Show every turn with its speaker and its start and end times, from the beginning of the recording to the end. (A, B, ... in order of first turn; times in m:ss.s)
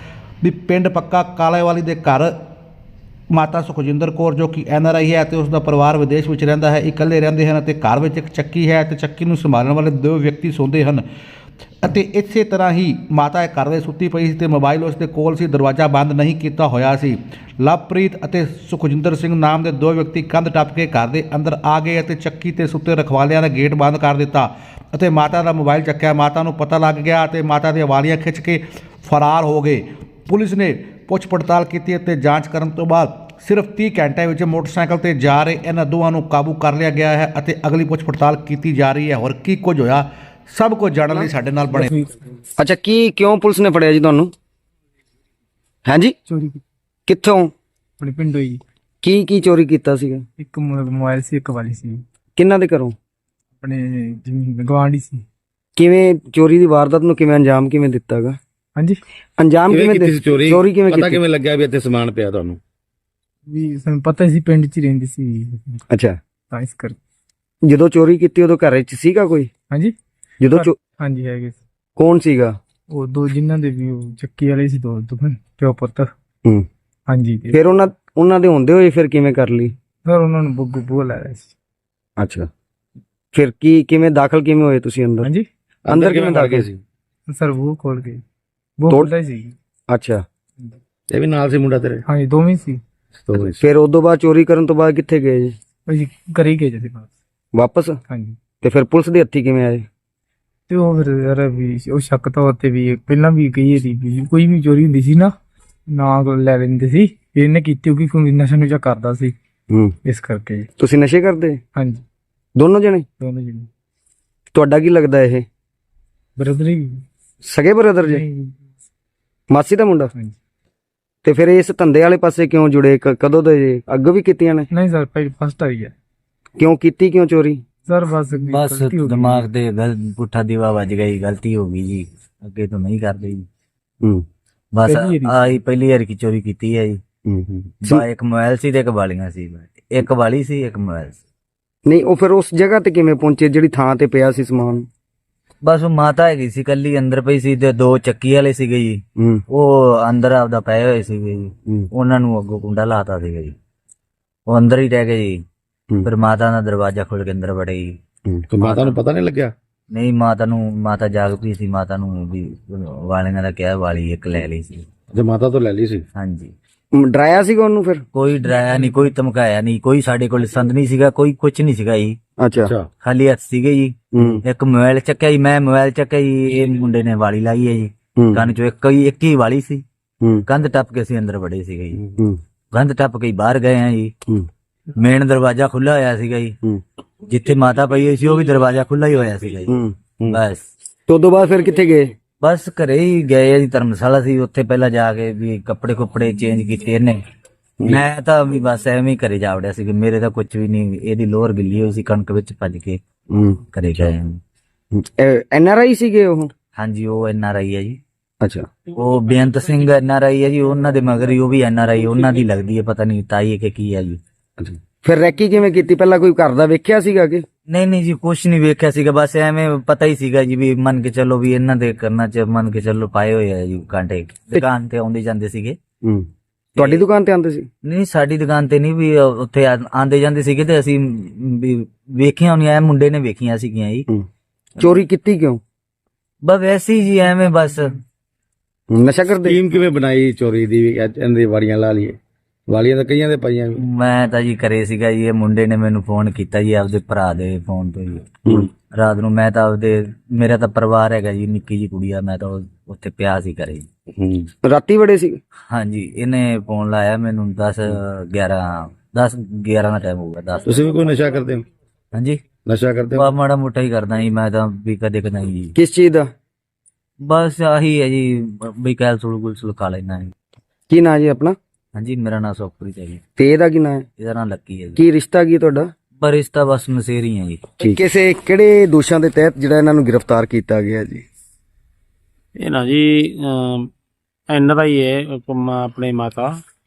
0:00.4-0:02.4 A
0:03.3-0:11.1 A
0:11.8-0:41.9 A
0:41.1-0:42.3 B
0:42.6-0:44.3 C
0:45.8-0:46.2 C
0:46.3-0:46.6 B
0:47.1-0:47.5 C
0:48.0-0:48.6 B
0:49.0-0:50.2 C
0:50.4-0:52.0 B
0:52.4-0:52.9 C
0:53.6-0:55.2 B
0:55.8-0:58.4 C
0:58.8-0:59.0 B
0:59.4-1:01.2 C
0:59.7-1:02.6 D
1:03.5-1:05.8 B
1:05.9-1:06.2 C
1:06.5-1:07.0 B
1:07.6-1:09.5 C
1:09.7-1:09.9 B
1:10.4-1:10.8 C
1:10.5-1:11.6 B
1:12.0-1:12.6 C
1:12.9-1:16.1 B
1:17.1-1:17.6 B
1:17.5-1:19.7 C
1:20.0-1:21.5 B
1:22.2-1:22.5 C
1:23.3-1:25.3 C
1:25.8-1:26.8 D
1:25.9-1:26.6 C
1:27.3-1:28.2 B
1:28.8-1:29.5 B
1:29.9-1:30.2 C
1:31.1-1:32.0 D
1:32.1-1:32.8 B
1:33.2-1:33.6 D
1:33.3-1:35.5 C
1:35.9-1:37.1 B
1:37.5-1:38.0 C
1:38.1-1:38.4 B
1:38.6-1:39.8 C
1:40.7-1:45.3 B
1:45.9-1:49.3 B
1:50.0-1:50.7 B
1:50.8-1:51.6 C
1:51.7-1:52.0 B
1:52.6-1:53.0 C
1:53.2-1:53.7 B
1:54.5-1:55.4 C
1:56.4-1:57.0 B
1:57.4-1:58.2 C
1:58.1-1:58.6 B
1:59.5-2:00.1 C
2:01.2-2:04.7 C
2:04.7-2:05.9 B
2:06.6-2:07.6 C
2:07.8-2:09.4 B
2:08.4-2:13.4 E
2:14.7-2:17.0 E
2:14.8-2:15.5 B
2:17.2-2:18.0 C
2:17.8-2:21.2 E
2:21.9-2:24.9 C
2:25.6-2:33.5 E
2:29.2-2:29.4 C
2:34.5-2:35.4 E
2:36.0-2:37.9 E
2:38.5-2:39.5 D
2:38.6-2:38.9 E
2:39.9-2:44.8 E
2:45.1-2:46.0 D
2:46.1-2:46.5 E
2:46.9-2:48.0 C
2:48.1-2:52.2 E
2:52.4-2:52.7 C
2:52.6-2:52.9 D
2:53.0-2:59.8 E
2:54.1-2:54.4 C
2:58.2-2:58.5 C
3:00.4-3:02.0 E
3:02.7-3:04.1 E
3:05.0-3:06.6 E
3:07.2-3:09.8 E
3:09.7-3:10.0 C
3:10.3-3:10.6 E
3:11.1-3:12.1 C
3:12.4-3:17.2 E
3:17.8-3:23.0 E
3:23.3-3:23.6 C
3:23.7-3:24.4 E
3:24.9-3:26.5 C
3:26.8-3:28.0 E
3:28.4-3:28.7 C
3:28.9-3:34.2 E
3:34.6-3:37.4 C
3:37.7-3:45.8 E
3:46.8-3:47.0 E
3:46.8-3:47.7 C
3:47.8-3:54.0 E
3:54.8-3:55.6 C
3:56.4-3:58.0 E
3:58.9-3:59.6 C
3:59.4-4:03.8 D
4:03.8-4:13.9 E
4:14.1-4:14.5 D
4:14.6-4:15.4 C
4:15.7-4:20.8 E
4:20.6-4:21.6 D
4:22.1-4:22.4 E
4:22.6-4:23.4 D
4:23.1-4:25.7 E
4:25.7-4:26.3 C
4:27.2-4:30.3 E
4:30.9-4:31.6 C
4:31.9-4:33.2 E
4:33.4-4:34.1 C
4:34.2-4:35.0 E
4:35.0-4:35.9 C
4:36.2-4:37.9 E
4:37.8-4:41.2 C
4:42.6-4:43.9 F
4:44.5-4:46.5 F